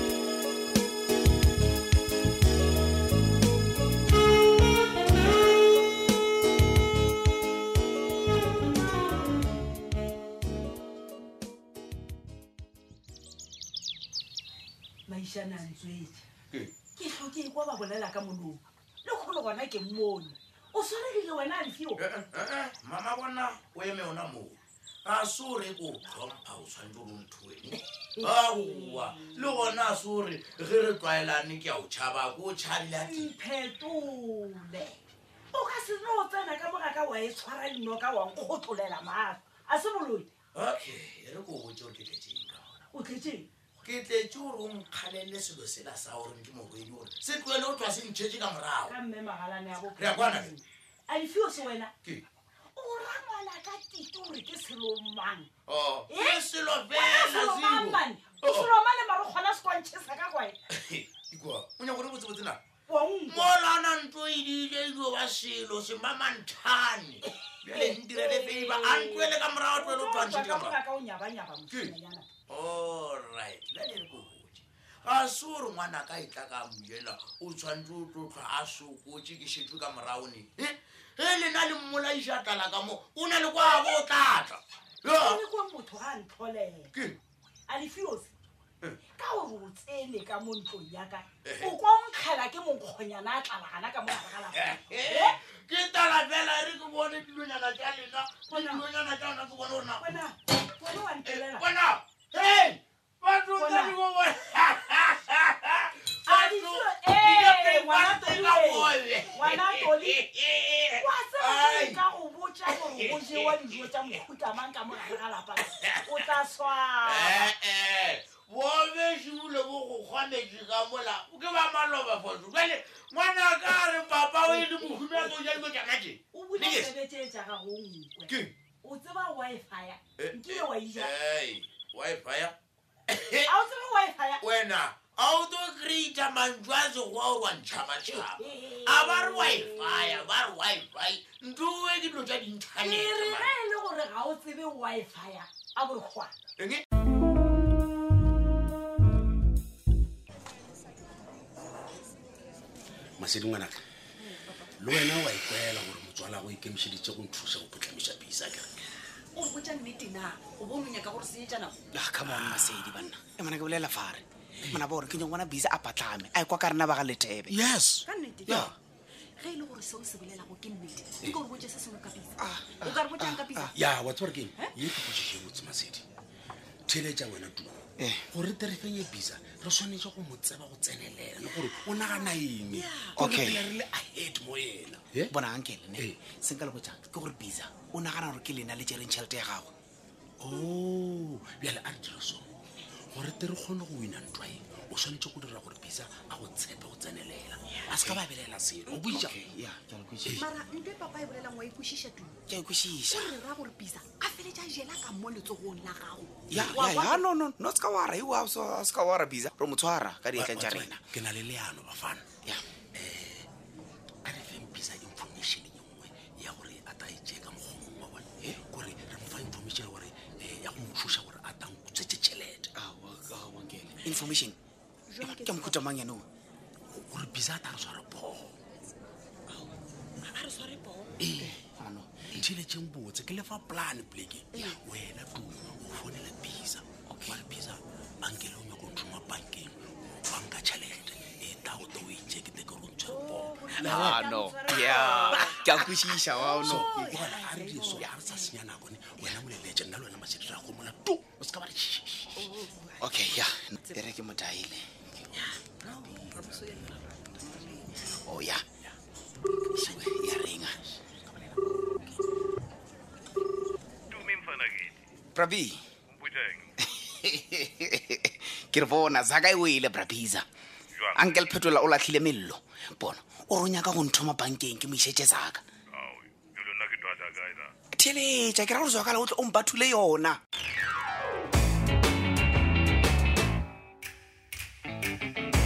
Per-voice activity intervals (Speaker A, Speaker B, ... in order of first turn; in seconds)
Speaker A: 15.1-16.2, 16.9-22.0, 28.1-29.4, 33.0-35.0, 35.5-40.3, 42.9-43.5, 48.9-51.9, 52.7-55.5, 56.1-60.6, 62.9-63.5, 67.7-72.3, 85.1-86.9, 87.7-88.3, 89.2-95.3, 98.5-98.8, 100.0-101.6, 103.5-104.0, 106.2-110.2, 111.0-117.5, 124.5-125.3, 126.3-131.1, 133.4-134.4, 138.3-140.2, 142.8-146.3
Speaker B: 22.0-33.3, 40.5-42.8, 43.8-48.9, 50.0-50.5, 55.7-58.7, 60.7-62.6, 63.3-70.8, 72.5-85.4, 91.4-91.7, 94.4-100.1, 101.2-112.0, 112.7-113.9, 115.7-116.3, 117.0-126.9, 128.3-128.5, 130.2-132.5, 133.1-133.5, 134.4-143.5, 146.6-146.8
Speaker C: 153.2-153.8, 154.8-158.7, 162.3-162.8, 167.5-168.7, 173.6-176.0, 176.9-185.3, 186.0-186.2, 190.4-192.5, 193.1-200.5, 206.5-206.9, 210.3-212.3, 212.9-213.5, 214.2-222.7, 226.9-228.6, 231.2-231.6, 232.2-244.2, 246.6-252.6, 256.0-256.9, 259.8-260.4, 261.0-262.1
Speaker D: 159.4-161.7, 169.4-172.3, 172.8-173.7, 198.9-199.3, 200.4-202.3, 203.1-207.2, 243.1-245.8, 246.4-248.3, 252.4-252.9
Speaker E: 161.9-167.6, 172.4-173.6, 178.0-178.2, 183.2-183.6, 185.3-189.7, 197.9-198.6, 199.3-200.3, 202.5-203.4, 206.5-211.0, 222.8-224.6, 225.2-226.2, 231.4-232.2, 243.9-247.0, 253.0-254.8, 258.2-258.6, 259.7-260.8, 265.3-265.8, 267.0-270.4, 271.1-275.6, 277.9-280.4
Speaker F: 264.1-265.0, 266.1-266.7, 275.9-277.7